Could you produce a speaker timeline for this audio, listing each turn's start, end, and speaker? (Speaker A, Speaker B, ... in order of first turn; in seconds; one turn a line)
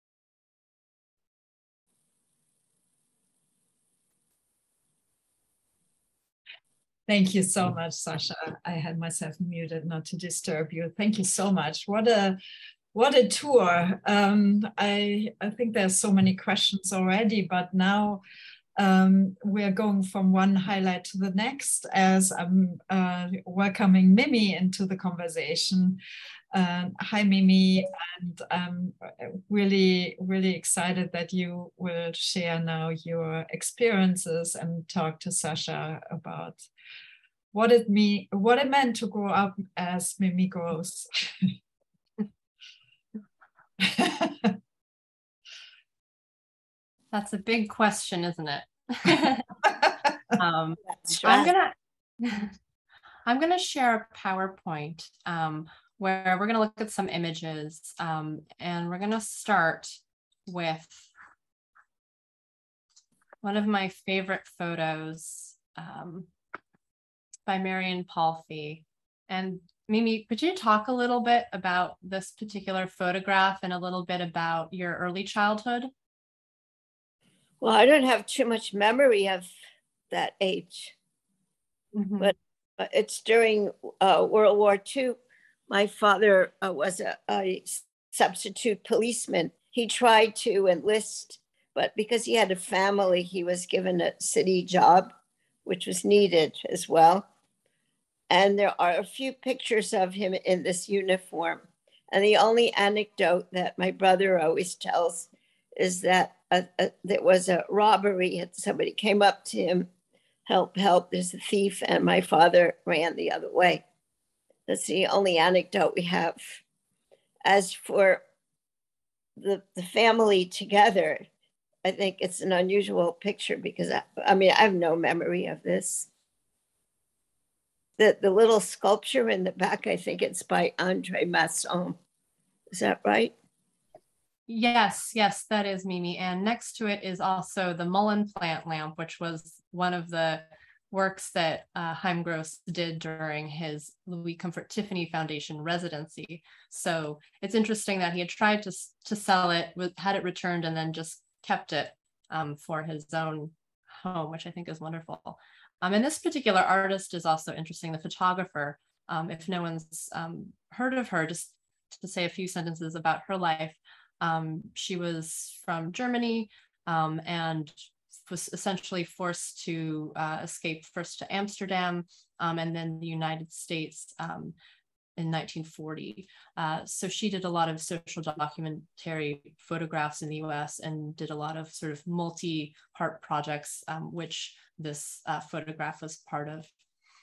Speaker A: 7.1-12.4
Speaker A: 12.9-18.2
Speaker A: 18.8-26.0
Speaker A: 26.5-36.6
Speaker A: 37.5-41.5
Speaker A: 43.8-44.5
Speaker B: 47.1-49.5
Speaker B: 50.4-52.5
Speaker C: 50.9-51.5
Speaker B: 53.2-61.1
Speaker B: 63.4-66.3
Speaker B: 67.5-75.9
Speaker C: 77.6-79.5
Speaker C: 80.1-81.0
Speaker B: 82.0-82.3
Speaker C: 82.2-85.2
Speaker C: 85.7-95.1
Speaker C: 95.7-97.3
Speaker C: 98.3-109.9
Speaker C: 110.5-113.8
Speaker C: 114.7-116.6
Speaker C: 117.4-118.2
Speaker C: 119.4-121.2
Speaker C: 121.8-126.1
Speaker C: 128.0-131.9
Speaker C: 132.7-133.3
Speaker B: 134.5-174.5
Speaker B: 175.2-186.7